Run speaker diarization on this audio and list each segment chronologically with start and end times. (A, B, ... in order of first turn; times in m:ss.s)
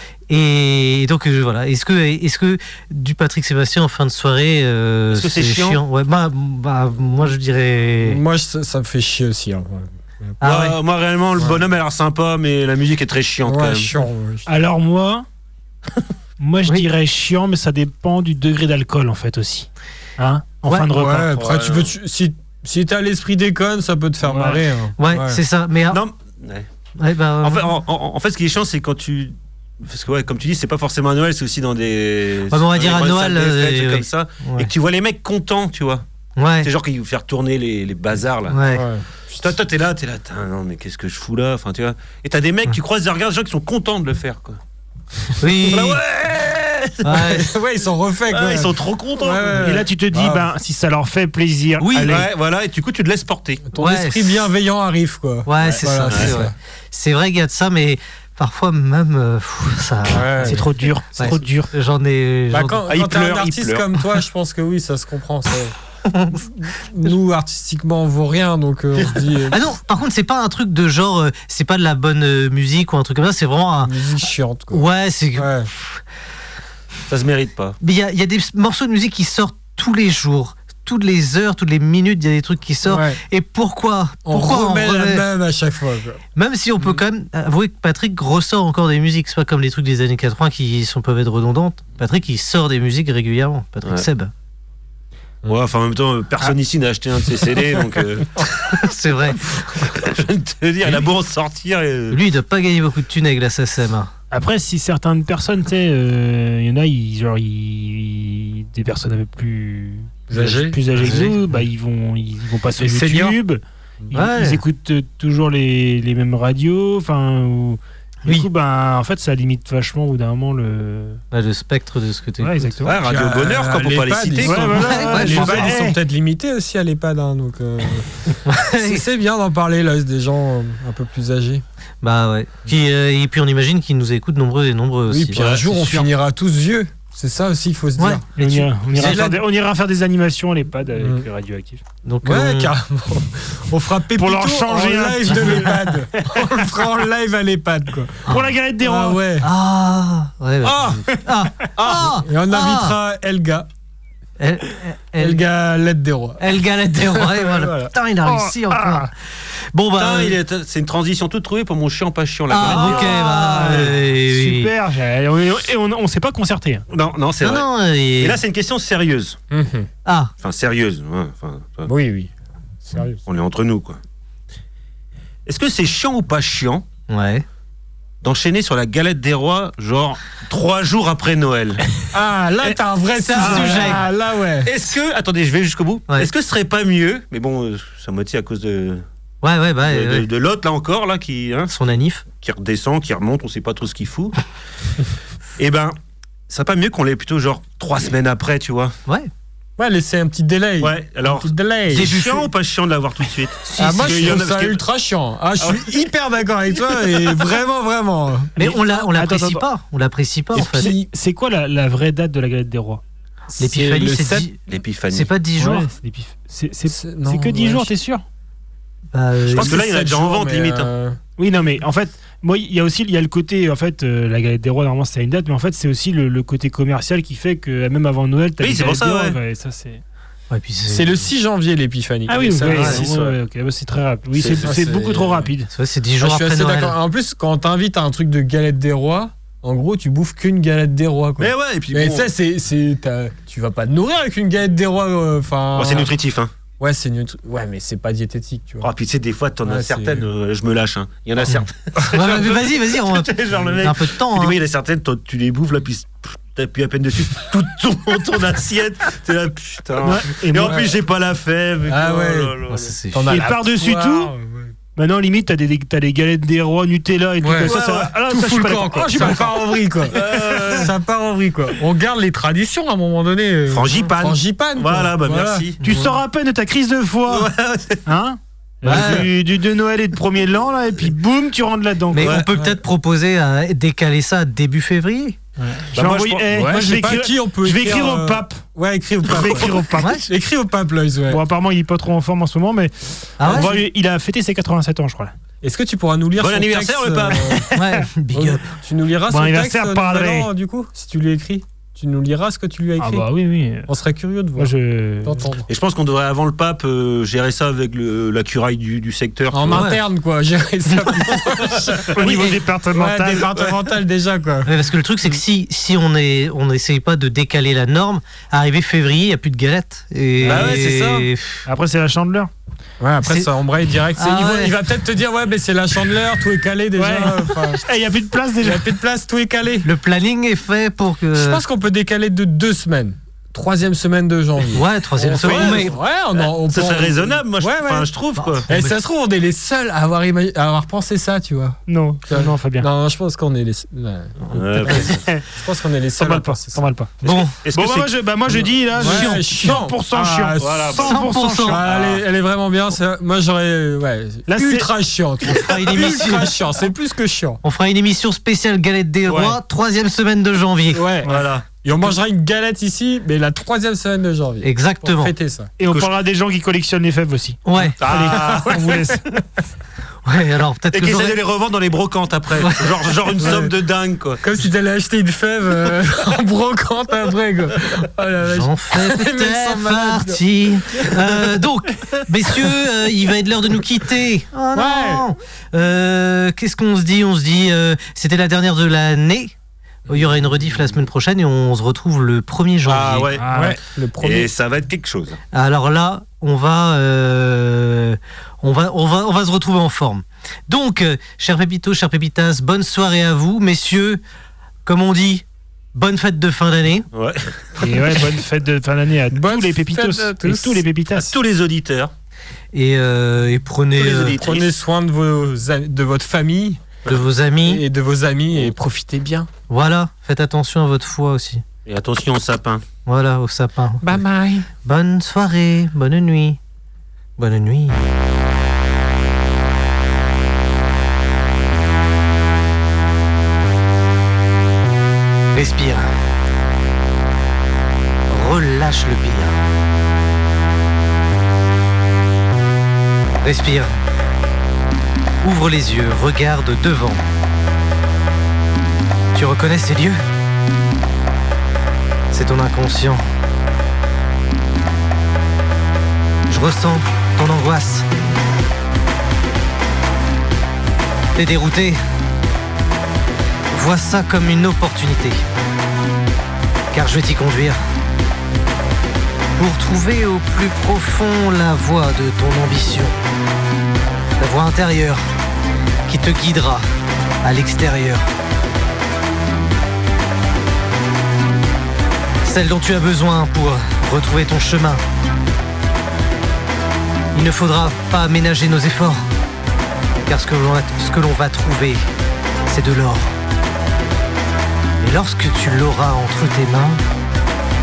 0:00.3-0:08.2 A
0:05.1-0:05.8 B
0:08.0-0:10.3 C
0:10.4-0:10.8 A
0:10.4-0:13.9 B
0:13.4-0:14.5 C
0:14.4-0:15.2 D
0:16.4-0:21.4 D
0:20.7-0:25.4 C
0:21.3-0:21.9 B
0:24.2-0:24.6 D
0:25.0-0:26.0 A
0:25.9-0:26.7 B
0:27.0-0:27.8 A
0:27.4-0:36.0 B
0:32.5-0:34.7 A
0:36.4-0:36.7 A
0:36.6-0:38.6 B
0:38.5-0:38.8 A
0:38.7-0:39.1 C
0:39.3-0:44.6 B
0:45.4-0:46.0 A
0:45.5-0:47.3 B
0:47.0-0:47.5 A
0:47.3-0:50.5 C
0:48.3-0:49.8 B
0:49.5-0:52.3 D
0:51.8-0:52.1 A
0:52.0-0:53.6 B
0:53.7-0:56.5 C
0:53.8-0:54.5 A
0:55.4-1:02.8 A
0:55.6-0:56.4 B
1:00.1-1:01.3 C
1:00.4-1:01.7 D
1:02.5-1:05.8 C
1:02.9-1:03.8 B
1:06.1-1:06.4 A
1:06.6-1:09.6 C
1:09.5-1:13.9 A
1:13.8-1:15.7 C
1:14.7-1:16.0 A
1:17.1-1:17.8 B
1:17.8-1:25.2 A
1:22.8-1:23.2 C
1:24.2-1:26.2 C
1:26.4-1:34.3 A
1:35.5-1:38.8 B
1:38.7-1:39.9 A
1:39.6-1:42.2 B
1:42.1-1:44.1 A
1:44.3-2:01.2 D
1:50.3-1:50.8 C
1:51.0-1:51.4 A
1:52.8-1:53.4 C
1:54.1-1:54.6 A
2:01.3-2:02.8 A
2:02.4-2:03.0 D
2:02.8-2:05.8 B
2:03.0-2:11.6 C
2:04.4-2:06.0 D
2:04.8-2:05.6 A
2:08.5-2:09.0 A
2:12.0-2:16.0 A
2:15.1-2:18.4 C
2:15.4-2:15.8 B
2:18.0-2:19.3 A
2:18.4-2:21.8 D
2:18.9-2:19.4 C
2:21.0-2:21.3 C
2:22.0-2:22.7 A
2:22.2-2:29.5 C
2:24.1-2:26.6 D
2:28.3-2:29.3 D
2:29.4-2:33.0 A
2:31.8-2:32.2 B
2:32.2-2:33.7 C
2:34.4-2:35.4 A
2:35.2-2:36.6 C
2:36.4-2:39.1 A
2:37.1-2:37.4 C
2:37.6-2:37.9 B
2:38.2-2:39.1 D
2:39.7-2:40.4 A
2:40.0-2:43.8 B
2:42.5-2:44.7 A
2:42.6-2:46.8 D
2:46.9-2:49.4 B
2:47.4-2:48.4 A
2:49.5-2:49.9 C
2:50.0-2:50.3 A
2:50.4-2:51.9 B
2:51.8-2:52.3 C
2:52.8-2:53.2 C
2:53.2-2:54.0 B
2:55.4-2:56.8 B
2:57.1-2:57.4 A
2:58.2-3:01.8 B
3:02.1-3:04.7 C
3:03.2-3:04.0 A
3:03.4-3:04.0 B
3:04.6-3:09.0 B
3:09.4-3:10.2 A
3:09.8-3:11.7 B
3:11.7-3:12.2 A
3:12.3-3:14.3 B
3:15.6-3:16.0 B
3:16.5-3:18.9 B
3:19.8-3:22.2 C
3:20.8-3:24.8 B
3:21.9-3:22.5 A
3:23.6-3:24.4 A
3:23.8-3:28.6 C
3:25.6-3:25.9 B
3:27.0-3:27.3 B
3:28.6-3:30.9 A
3:28.6-3:29.6 D
3:30.6-3:31.1 C
3:30.6-3:33.0 D
3:33.5-3:34.5 C
3:33.6-3:34.6 A
3:34.7-3:35.4 B
3:35.1-3:35.9 A
3:35.6-3:38.2 D
3:36.9-3:37.9 C
3:39.1-3:39.8 A
3:39.5-3:41.2 C
3:39.5-3:40.9 B
3:41.4-3:50.0 D
3:48.6-3:49.4 B
3:50.5-3:51.2 A
3:50.9-3:53.4 C
3:52.3-3:55.7 D
3:52.7-3:53.0 A
3:54.3-3:55.5 C
3:55.7-3:57.0 A
3:56.2-4:06.1 C
4:01.4-4:02.3 B
4:05.7-4:06.5 B
4:06.8-4:08.9 C
4:08.8-4:23.0 B
4:09.6-4:10.3 C
4:12.1-4:14.6 A
4:20.0-4:20.9 D
4:20.6-4:20.9 C
4:21.9-4:22.6 C
4:22.7-4:23.4 A
4:23.1-4:24.7 C
4:23.3-4:24.3 D
4:25.0-4:30.8 D
4:27.4-4:36.1 C
4:27.6-4:28.1 B
4:29.2-4:29.5 B
4:30.1-4:30.9 B
4:33.7-4:35.8 B
4:35.8-4:37.5 D
4:37.3-4:38.0 B
4:38.0-4:42.4 D
4:38.8-4:39.2 A
4:38.9-4:39.3 B
4:42.1-4:45.4 A
4:42.2-4:42.5 B
4:42.5-4:42.8 C
4:45.6-4:48.6 D
4:45.9-4:46.5 B
4:46.5-4:51.4 C
4:49.2-4:50.2 D
4:50.0-4:50.2 A
4:51.3-4:55.3 D
4:53.4-4:53.8 A
4:55.6-4:57.7 C
4:56.4-4:57.8 B
4:57.7-4:58.6 A
4:58.3-5:03.3 C
4:59.3-5:00.5 D
5:03.0-5:03.9 D
5:03.8-5:05.7 C
5:04.6-5:05.5 D
5:05.7-5:10.0 B
5:09.5-5:14.7 C
5:11.7-5:12.4 B
5:12.2-5:13.5 D
5:14.6-5:21.6 A
5:20.4-5:21.2 B
5:20.5-5:21.2 C
5:21.6-5:22.5 D
5:23.0-5:27.8 C
5:23.2-5:23.5 A
5:24.2-5:24.7 A
5:26.9-5:29.0 D
5:28.6-5:29.9 C
5:29.8-5:31.6 A
5:31.3-5:38.1 C
5:34.7-5:35.9 A
5:35.4-5:38.7 B
5:38.4-5:38.9 A
5:38.7-5:46.9 C
5:41.9-5:42.9 D
5:44.5-5:45.2 B
5:44.9-5:45.4 D
5:46.2-5:51.8 D
5:47.2-5:47.6 A
5:47.2-5:48.2 B
5:48.6-5:51.0 C
5:50.5-5:51.2 B
5:51.0-5:51.8 A
5:51.7-5:57.6 C
5:51.8-5:52.2 B
5:54.5-5:54.9 D
5:55.5-5:56.5 A
5:57.6-6:01.0 A
5:59.3-5:59.5 B
6:00.9-6:05.7 C
6:01.2-6:01.7 B
6:04.6-6:05.3 A
6:05.8-6:09.2 D
6:07.6-6:08.0 A
6:08.0-6:09.1 B
6:08.3-6:09.2 C
6:10.2-6:11.4 A
6:10.9-6:14.4 B
6:13.4-6:13.7 C
6:14.4-6:21.6 C
6:18.4-6:29.5 A
6:24.7-6:25.3 C
6:30.1-6:33.3 A
6:32.8-6:35.4 B
6:33.3-6:33.8 D
6:33.5-6:34.5 C
6:35.5-6:44.2 A
6:44.8-6:47.1 A
6:47.1-6:48.2 B
6:47.8-6:51.3 D
6:49.3-6:50.8 C
6:51.1-6:52.1 B
6:52.7-6:54.4 A
6:54.0-6:54.7 B
6:54.2-6:57.0 C
6:57.0-6:57.8 A
6:57.6-6:59.5 C
6:59.7-7:01.6 A
7:01.8-7:02.8 B
7:03.0-7:04.2 A
7:04.0-7:04.7 C
7:04.8-7:06.6 A
7:07.4-7:08.0 A
7:15.5-7:16.1 A
7:18.3-7:19.6 A
7:23.4-7:24.0 A
7:25.4-7:27.3 A
7:29.3-7:30.2 A
7:32.3-7:33.2 A
7:36.5-7:38.1 A
7:41.3-7:42.0 A
7:43.7-7:45.4 A
7:46.9-7:47.8 A
7:49.6-7:53.2 A
7:54.4-7:55.3 A
7:56.1-7:56.8 A
7:57.4-7:58.3 A
8:02.4-8:05.0 A
8:07.3-8:09.2 A
8:10.2-8:12.1 A
8:12.7-8:13.3 A
8:15.0-8:17.0 A